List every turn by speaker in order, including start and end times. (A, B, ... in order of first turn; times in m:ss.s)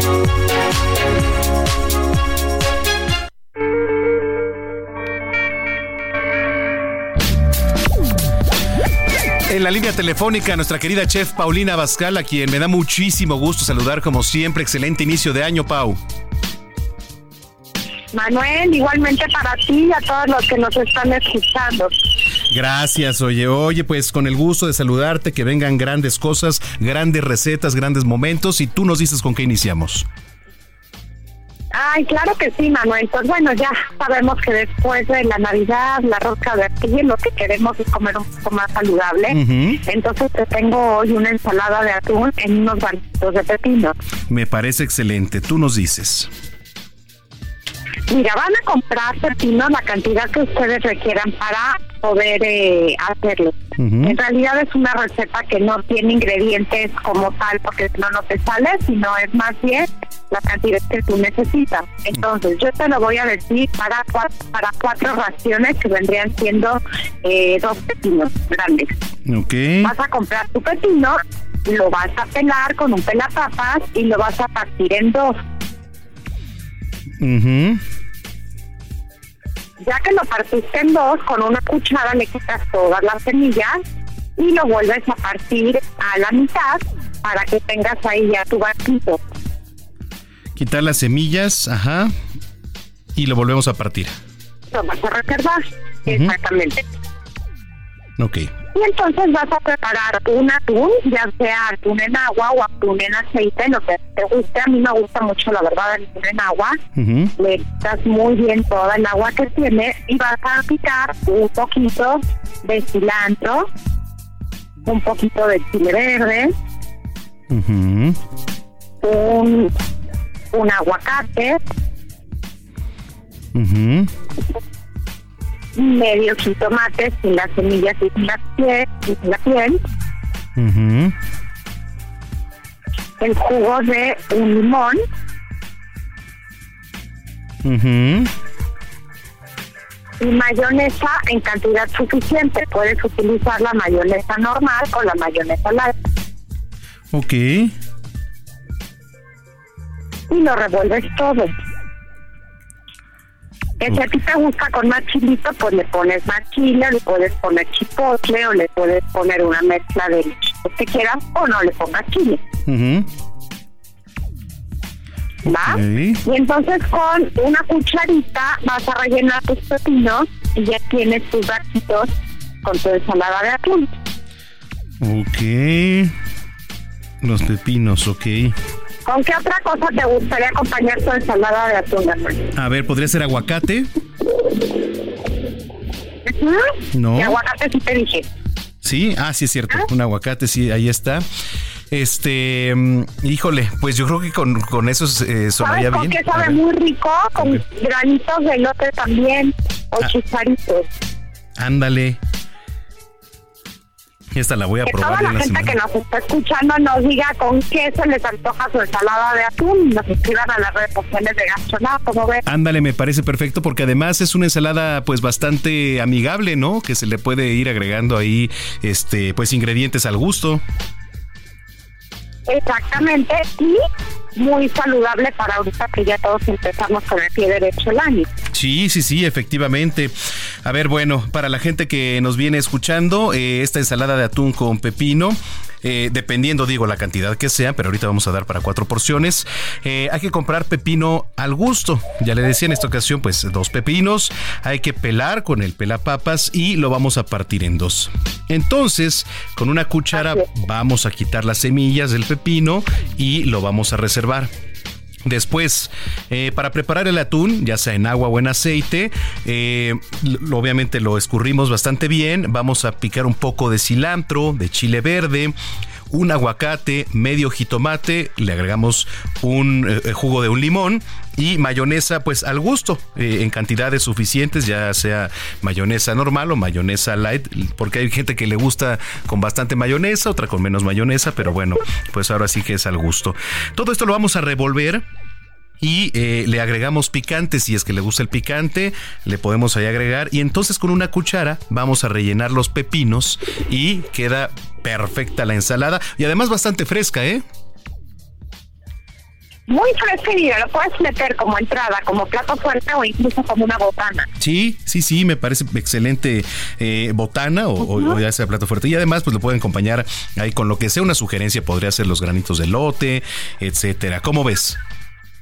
0:09.5-0:16.0 A
0:18.1-0:22.0 B
0:22.5-0:30.1 A
0:31.7-0:44.0 B
0:39.3-0:39.8 A
0:44.3-0:46.3 A
0:48.1-1:08.9 B
0:53.8-0:54.2 A
1:09.3-1:09.9 A
1:09.8-1:15.4 B
1:17.2-1:17.8 A
1:19.8-1:23.8 B
1:24.4-1:29.2 B
1:30.6-1:32.1 A
1:33.2-1:34.2 A
1:34.7-1:36.8 B
1:36.1-1:36.3 A
1:38.2-1:38.5 A
1:38.7-1:46.8 B
1:47.0-1:47.3 A
1:47.4-1:53.7 B
1:54.8-1:56.5 B
1:57.5-1:58.2 A
1:59.0-1:59.7 B
2:00.5-2:01.6 B
2:03.6-2:04.1 A
2:05.8-2:09.8 B
2:10.6-2:11.1 A
2:13.2-2:15.0 B
2:17.6-2:18.3 A
2:20.2-2:25.9 B
2:27.1-2:27.7 A
2:30.3-2:31.5 B
2:33.8-2:42.4 B
2:42.7-2:43.1 A
2:45.4-2:52.1 B
2:45.7-2:46.2 A
2:52.6-2:53.9 B
2:55.0-2:56.1 A
2:57.2-2:58.6 A
2:59.1-3:02.4 B
3:02.6-3:03.9 A
3:06.2-3:08.3 B
3:06.9-3:07.4 A
3:08.8-3:11.2 A
3:11.9-3:16.6 A
3:15.6-3:20.9 B
3:17.4-3:17.6 A
3:21.6-3:22.2 A
3:24.3-3:25.8 A
3:24.8-3:32.4 B
3:32.5-3:40.6 A
3:42.5-3:43.8 B
3:44.4-3:48.3 B
3:48.5-3:50.1 A
3:50.6-4:14.5 A
4:10.1-4:10.4 B
4:15.3-4:25.5 A
4:26.1-4:45.0 A
4:45.8-4:57.4 A
4:59.7-5:04.3 B
5:04.4-5:14.8 A